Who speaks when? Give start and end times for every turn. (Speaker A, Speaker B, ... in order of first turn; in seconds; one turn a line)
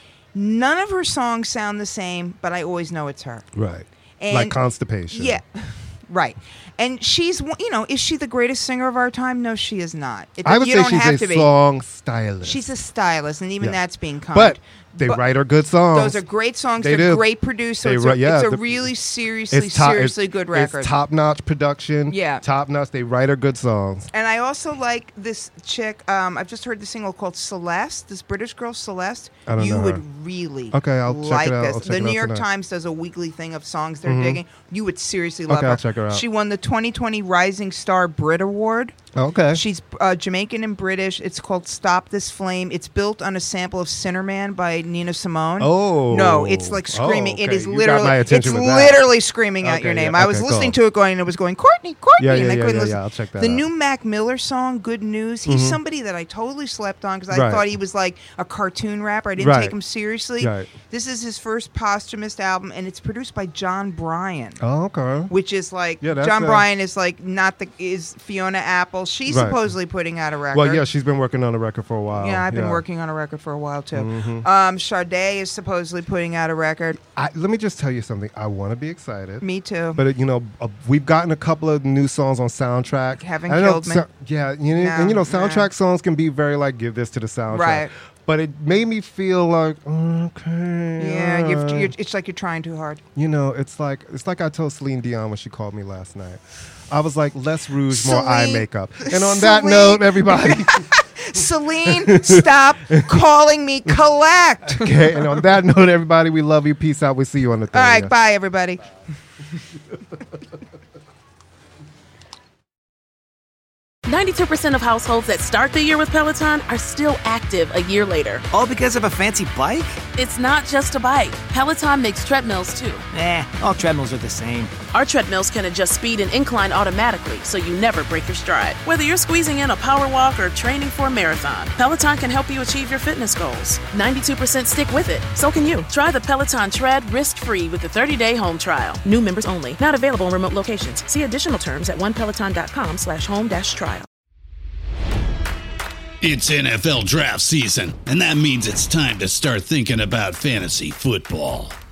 Speaker A: 0.3-3.5
Speaker B: 3.5-5.4
Speaker A: 4.2-11.5
Speaker B: 10.4-12.6
Speaker A: 12.4-15.2
Speaker B: 14.3-16.2
Speaker A: 15.9-20.9
Speaker B: 16.8-17.2
Speaker B: 17.8-18.9
Speaker B: 19.5-24.1
Speaker A: 22.1-22.4
Speaker A: 24.1-38.9
Speaker B: 29.5-30.0
Speaker B: 30.7-32.4
Speaker B: 34.0-34.4
Speaker B: 35.5-36.2
Speaker B: 39.1-39.6
Speaker A: 39.5-64.6
Speaker B: 45.6-49.0
Speaker B: 49.6-50.8
Speaker B: 52.2-53.6
Speaker B: 55.5-55.8
Speaker B: 57.3-57.7
Speaker B: 59.4-59.7
Speaker B: 60.4-60.7
Speaker B: 64.6-65.3
Speaker A: 65.3-70.8
Speaker B: 66.0-66.7
Speaker B: 69.3-69.7
Speaker B: 70.5-72.8
Speaker A: 72.1-77.0
Speaker B: 73.9-74.5
Speaker B: 77.0-79.4
Speaker A: 79.4-80.0
Speaker B: 80.0-91.9
Speaker A: 83.2-84.0
Speaker A: 84.8-85.7
Speaker A: 87.5-87.9
Speaker A: 91.0-93.0
Speaker B: 93.2-100.9
Speaker A: 97.9-105.2
Speaker B: 101.8-103.2
Speaker B: 104.7-108.1
Speaker A: 107.7-108.8
Speaker C: 114.0-118.4
Speaker D: 118.5-119.9
Speaker C: 120.2-123.0
Speaker D: 123.1-124.7
Speaker C: 124.9-144.1
Speaker E: 146.2-151.8